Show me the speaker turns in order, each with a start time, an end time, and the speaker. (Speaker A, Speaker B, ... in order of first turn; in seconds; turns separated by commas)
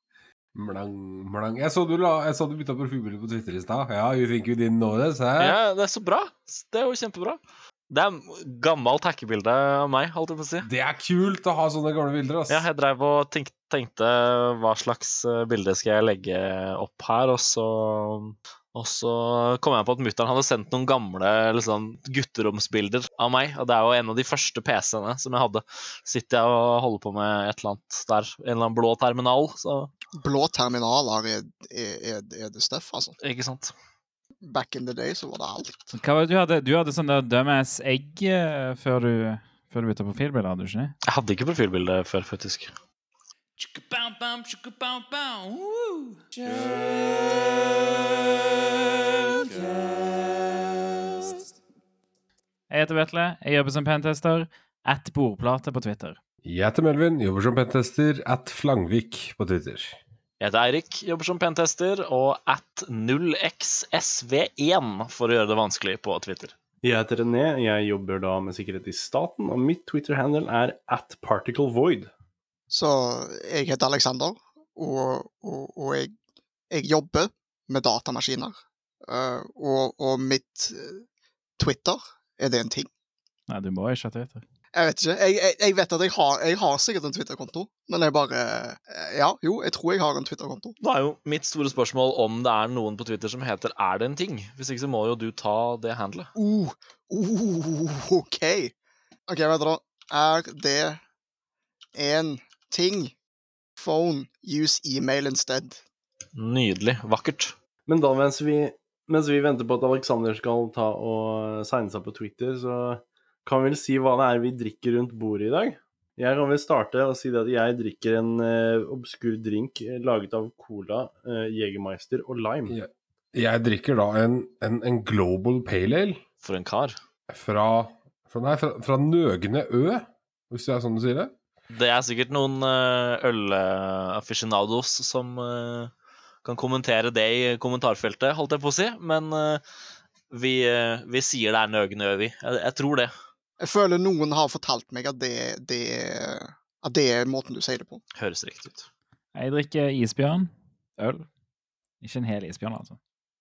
Speaker A: 0.5-5.6, Speaker B: 5.4-10.7, Speaker A: 10.6-12.7, Speaker B: 12.5-29.9, Speaker C: 30.2-33.1, Speaker B: 33.2-33.7, Speaker C: 34.4-35.9, Speaker D: 36.0-41.0, Speaker B: 41.1-42.7, Speaker D: 43.6-51.5, Speaker D: 52.7-56.2, Speaker A: 56.5-60.0, Speaker B: 60.4-66.5, Speaker E: 66.8-72.1, Speaker C: 72.7-76.1, Speaker C: 76.7-81.0, Speaker C: 81.6-82.9, Speaker D: 83.5-84.4, Speaker C: 84.7-90.8, Speaker B: 90.8-96.3, Speaker C: 96.4-98.7, Speaker C: 99.3-101.0, Speaker C: 102.0-103.1, Speaker C: 103.8-105.8, Speaker B: 106.3-107.5, Speaker E: 107.9-122.8, Speaker A: 122.7-126.2, Speaker B: 126.4-127.0, Speaker A: 127.3-131.3, Speaker B: 131.7-135.9, Speaker B: 136.4-139.6, Speaker B: 140.3-143.1, Speaker C: 143.6-148.0, Speaker B: 148.2-148.9, Speaker D: 149.3-151.3, Speaker D: 152.0-153.0